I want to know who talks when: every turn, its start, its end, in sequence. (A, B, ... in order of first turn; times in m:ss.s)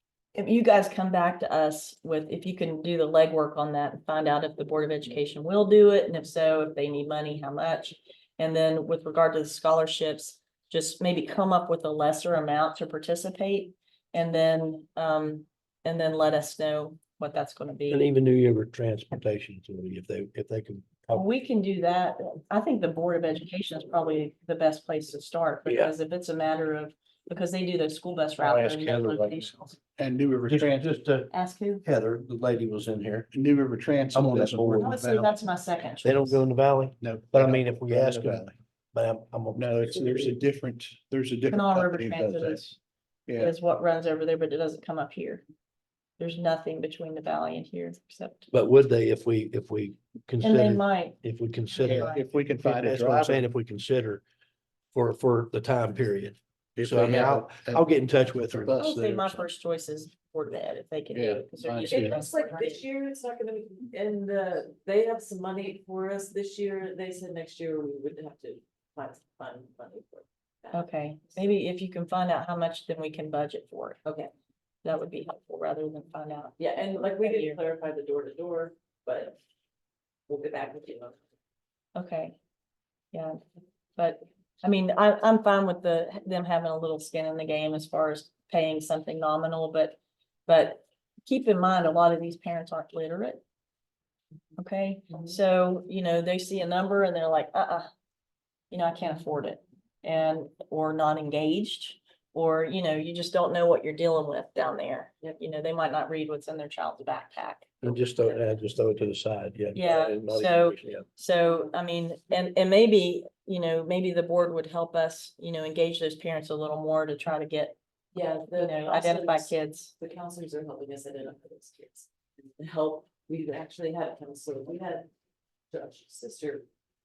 0:00.3-0:18.0 A
0:17.9-0:21.3 B
0:21.1-0:29.8 A
0:25.6-0:25.9 B
0:28.4-0:29.5 B
0:30.0-0:31.0 C
0:30.5-0:33.3 B
0:31.3-0:31.8 A
0:33.3-0:35.4 C
0:34.1-0:35.0 B
0:34.8-0:36.4 A
0:36.0-0:40.3 B
0:37.0-0:38.5 C
0:39.5-0:42.6 C
0:41.5-0:42.8 A
0:43.3-0:43.5 C
0:43.4-0:45.4 A
0:46.2-0:48.5 A
0:48.5-0:54.2 B
0:50.4-0:52.2 A
0:51.8-0:53.5 C
0:54.9-0:59.4 B
0:56.8-0:58.9 C
0:58.8-1:02.8 A
1:01.1-1:02.2 C
1:01.8-1:10.9 D
1:10.7-1:14.0 A
1:14.0-1:14.3 D
1:14.8-1:17.6 A
1:16.6-1:19.4 D
1:20.3-1:21.2 D
1:21.9-1:22.3 A
1:23.1-1:23.4 A
1:24.0-1:33.4 A
1:34.6-1:37.9 A
1:38.7-1:47.7 A
1:47.8-1:51.0 B
1:49.7-1:57.8 A
1:58.1-2:05.1 D
1:58.5-1:59.9 A
2:05.7-2:06.6 D